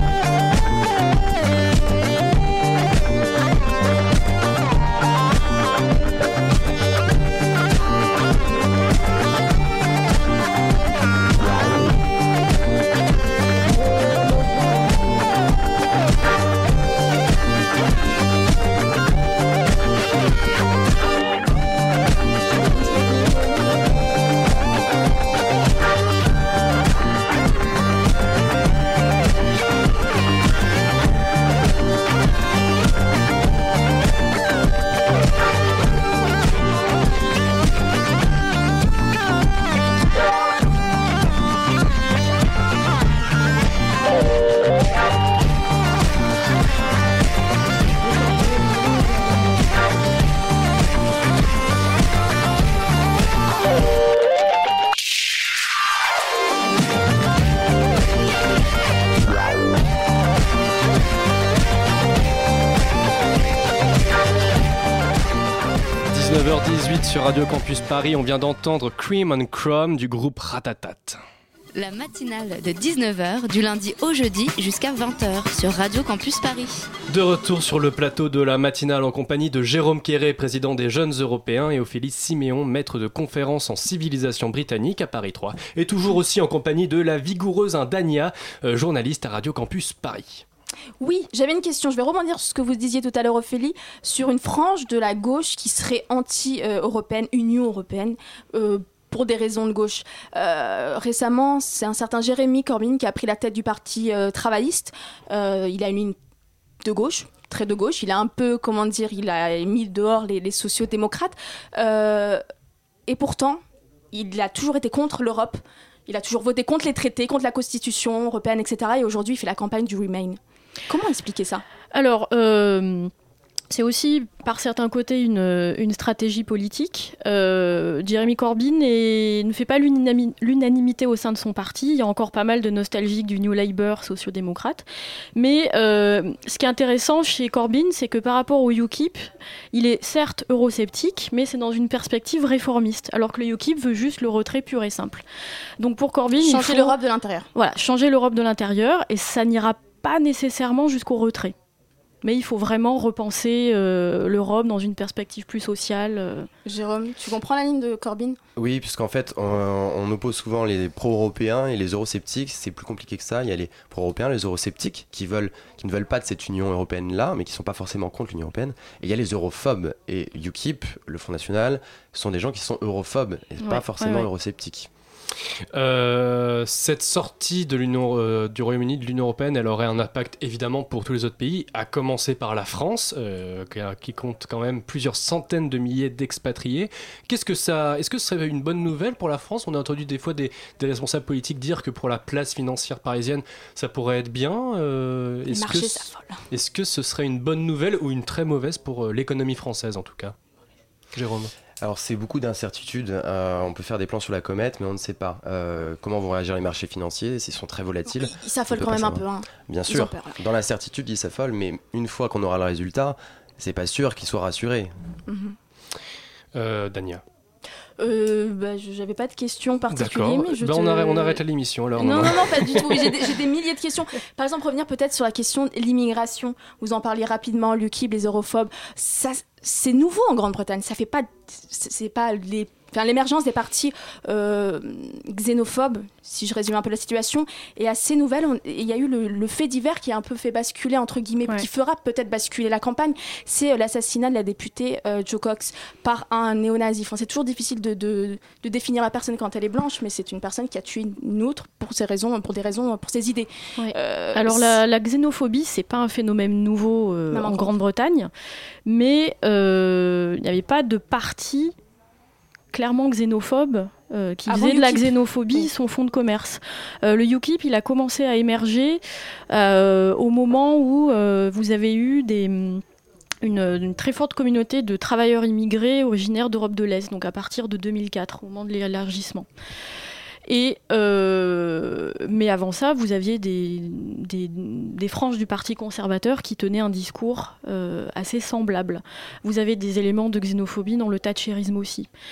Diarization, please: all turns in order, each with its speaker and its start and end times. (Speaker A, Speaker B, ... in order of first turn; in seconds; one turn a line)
Speaker A: 66.1-71.2
Speaker B: 71.8-76.9
Speaker A: 77.1-90.5
Speaker C: 91.0-106.2
Speaker C: 106.8-112.4
Speaker C: 113.1-121.6
Speaker D: 121.9-123.1
Speaker D: 123.7-145.2
Speaker D: 145.8-147.0
Speaker C: 146.4-147.5
Speaker D: 147.6-151.6
Speaker D: 152.2-156.5
Speaker C: 156.7-158.4
Speaker E: 158.6-174.9
Speaker D: 173.6-174.3
Speaker A: 175.7-200.3
Speaker C: 195.5-196.4
Speaker A: 201.1-201.5
Speaker E: 201.8-214.9
Speaker C: 208.2-210.4
Speaker C: 215.3-215.6
Speaker A: 216.5-217.2
Speaker C: 218.0-221.4
Speaker A: 219.9-223.3
Speaker C: 222.0-254.8
Speaker D: 253.8-258.3
Speaker C: 257.3-257.7
Speaker D: 258.9-261.8
Speaker D: 262.7-272.8
Speaker C: 264.5-265.7
Speaker D: 273.4-279.5
Speaker D: 280.5-292.1